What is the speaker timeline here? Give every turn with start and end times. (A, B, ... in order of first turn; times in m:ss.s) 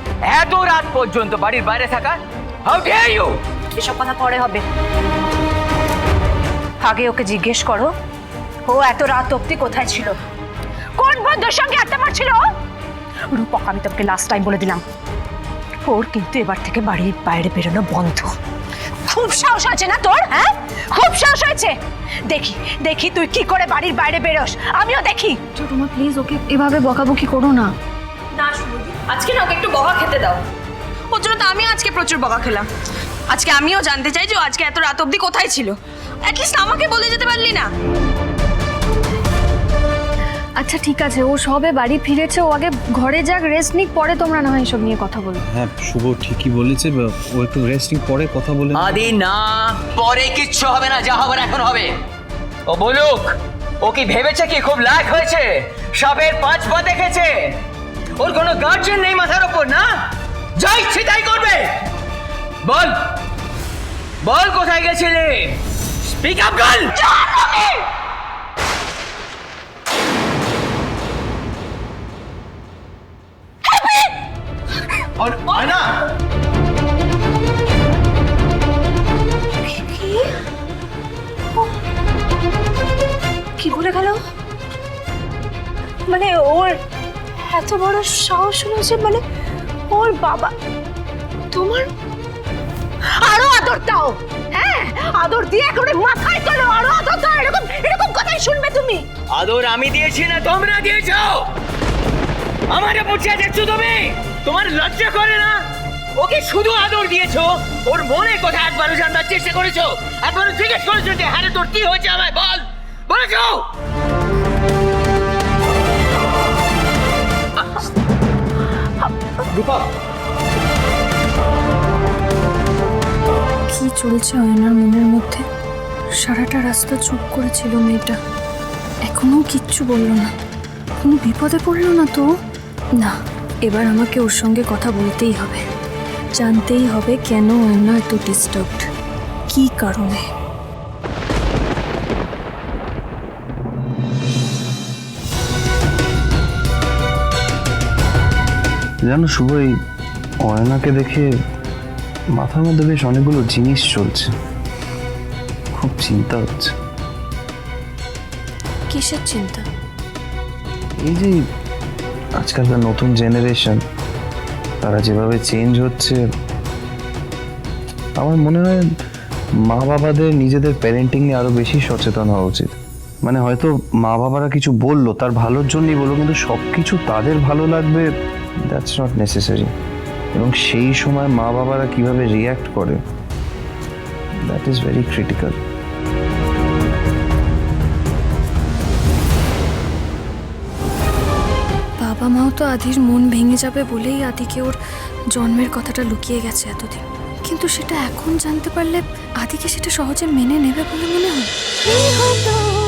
0:00.2-0:03.4 A
0:03.7-0:04.6 B
0:06.8-0:07.9 B
0:08.6-0:10.2 B
0:11.0-0:12.4 B
0:13.3-0:14.8 B
0:15.8-0:18.3 B
0:19.0-0:21.7 B
0:22.3-0:25.4 B
0:25.5-0:27.7 C
0:28.3-0:30.4 D
0:31.1-0:32.7 D
0:33.3-0:37.7 D
0:40.6-0:45.4 C
0:45.5-0:49.1 E
0:48.7-0:51.9 A
0:52.7-0:57.3 A
0:58.2-0:59.9 A
1:00.6-1:01.7 A
1:02.6-1:03.0 A
1:04.2-1:07.0 A
1:15.2-1:15.9 A
1:19.6-1:20.3 B
1:23.6-1:24.2 B
1:26.1-1:26.8 B
1:27.4-1:29.2 B
1:29.9-1:30.5 B
1:31.5-1:31.9 B
1:33.1-1:39.0 B
1:39.3-1:41.5 A
1:42.7-1:45.6 A
1:46.2-1:53.7 A
1:59.5-1:59.8 A
2:03.7-2:05.4 C
2:06.2-2:08.2 C
2:09.0-2:10.3 C
2:11.0-2:12.2 C
2:13.0-2:15.6 C
2:16.4-2:18.9 C
2:19.5-2:20.2 C
2:29.0-2:29.7 E
2:30.4-2:31.3 E
2:32.3-2:34.3 E
2:35.7-2:36.7 E
2:38.9-2:39.6 C
2:41.0-2:41.4 E
2:42.4-2:43.8 E
2:44.8-2:46.2 E
2:48.2-2:48.8 E
2:49.6-2:52.7 E
2:53.2-2:58.1 E
2:58.7-2:59.7 E
3:00.3-3:03.0 E
3:04.4-3:05.6 E
3:12.0-3:14.8 C
3:15.3-3:21.5 C